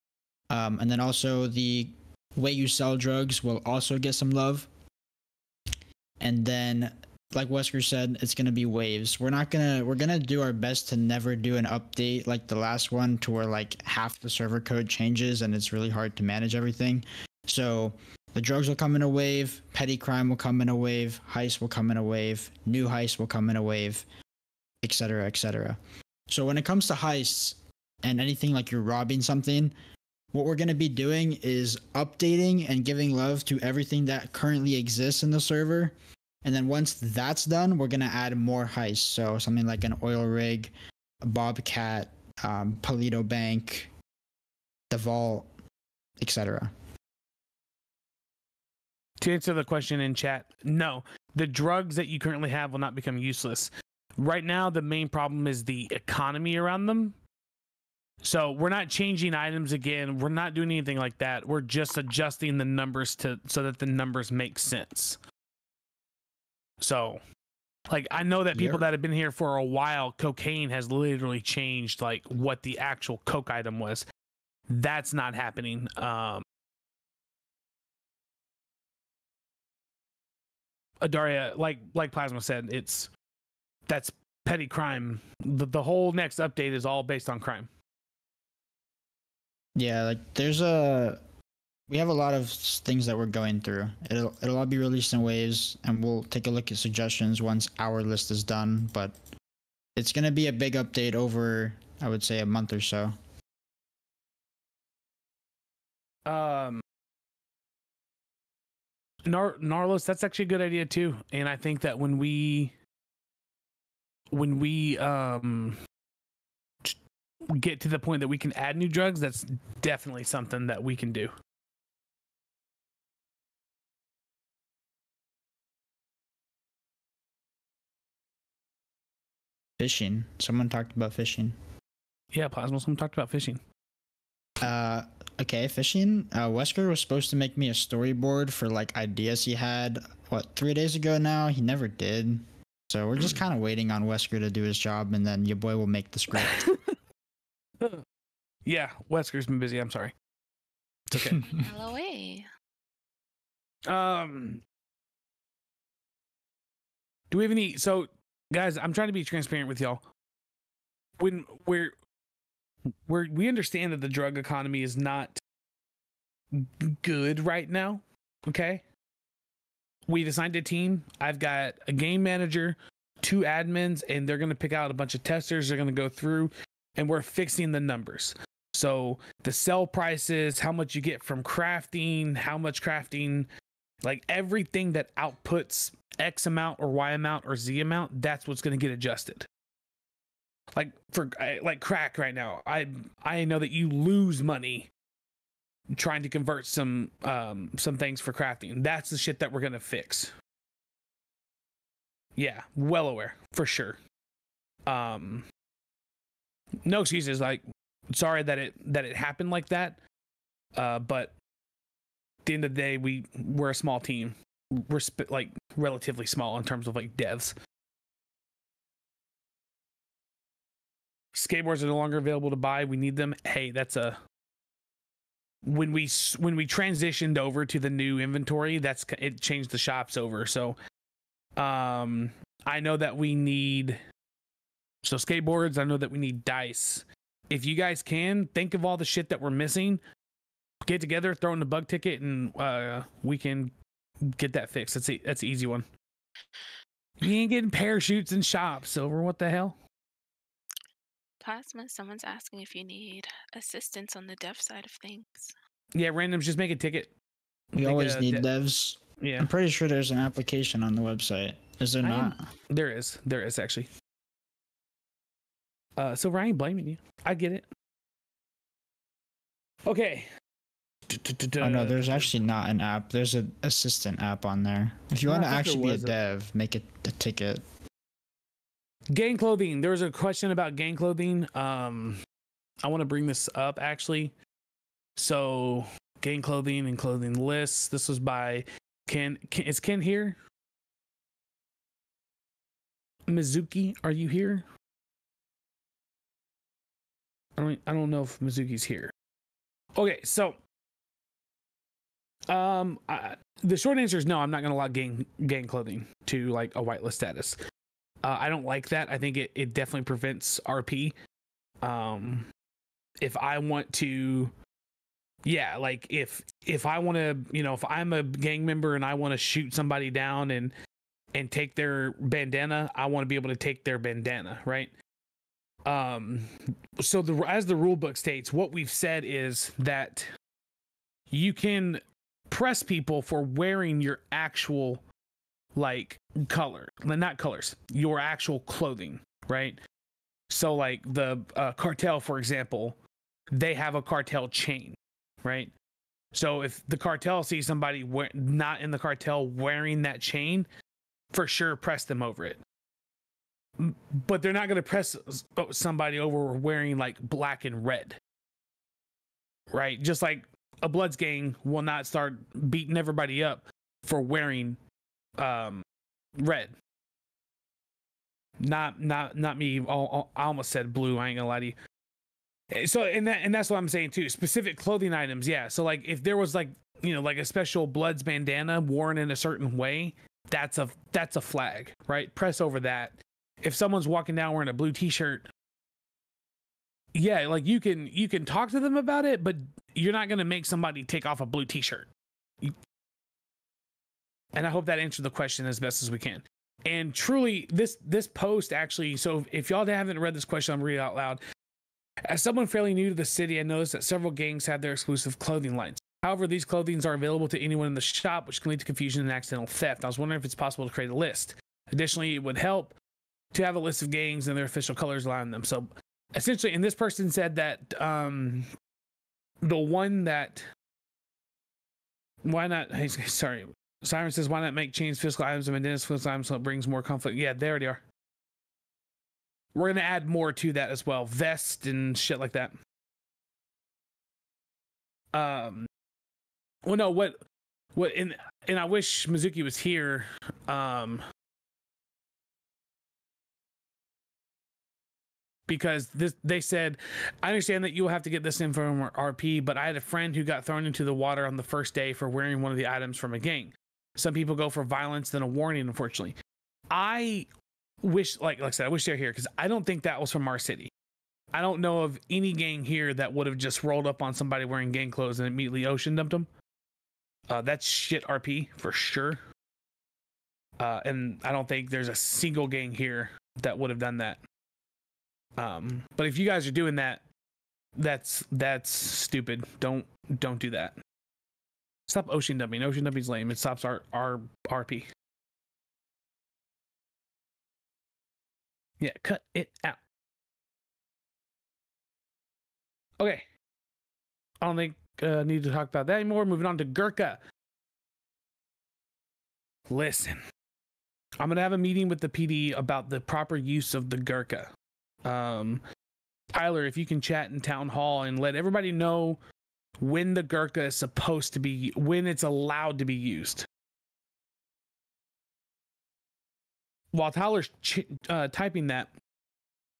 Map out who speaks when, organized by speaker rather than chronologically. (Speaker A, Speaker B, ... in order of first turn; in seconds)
Speaker A: 0.5-4.7, 6.2-24.1, 24.8-29.7, 30.3-43.9, 44.9-45.5, 46.2-46.7, 68.5-68.8, 89.8-91.2, 91.9-99.2, 100.0-103.1, 129.8-131.6, 134.6-146.7, 151.1-151.7, 257.8-262.4, 271.6-277.6
Speaker B: 49.2-57.2, 58.2-65.2, 66.8-67.2, 67.9-74.0, 74.7-76.4, 81.0-83.1, 83.9-87.7, 106.2-106.8, 109.2-112.8, 114.3-115.8, 117.5-121.3, 132.3-133.6, 146.3-146.8, 148.6-150.1, 151.1-151.4, 153.9-154.6, 157.3-160.0, 161.2-161.9, 163.0-165.4, 166.5-168.8, 170.1-183.5, 184.0-189.4, 190.7-194.9, 195.9-200.3, 202.3-204.0, 204.8-205.4, 206.8-210.0, 210.7-211.3, 212.4-214.3, 214.9-217.5, 221.3-224.2, 225.6-230.8, 231.6-234.0, 235.0-240.0, 240.8-243.7, 244.3-245.8, 247.2-249.8, 255.9-257.1, 257.7-258.5, 259.2-259.5, 262.0-263.9, 266.0-267.7, 269.9-270.3, 271.1-272.3, 275.2-276.1, 279.1-282.2, 282.8-284.3, 285.1-290.4, 293.3-294.6, 297.6-299.1, 299.9-300.6, 302.5-307.6, 308.2-311.1, 311.8-312.5, 313.2-314.5, 315.4-320.7, 321.3-324.9, 325.9-326.5, 327.0-330.3, 331.3-335.0, 335.7-339.8, 340.5-343.0, 343.5-345.7, 346.3-350.7, 351.3-352.6, 353.8-358.2, 359.7-364.8, 365.4-365.8, 366.4-366.7, 368.6-371.8, 372.7-385.5, 387.1-392.1, 394.5-401.4, 402.3-412.9, 413.5-418.7, 419.6-420.6, 422.4-428.0, 429.7-432.8, 435.3-435.9, 436.8-437.4, 437.9-441.2, 445.7-456.4, 456.9-457.5, 458.0-460.9, 461.5-466.5, 467.5-469.4, 470.8-474.4, 475.6-477.2, 478.0-480.9, 482.1-485.1, 489.0-490.0, 493.2-493.4, 494.6-497.4, 499.9-500.4, 501.4-504.7, 505.2-505.8, 506.5-509.4, 510.0-513.6, 517.1-519.1
Speaker C: 151.4-152.4, 251.4-255.5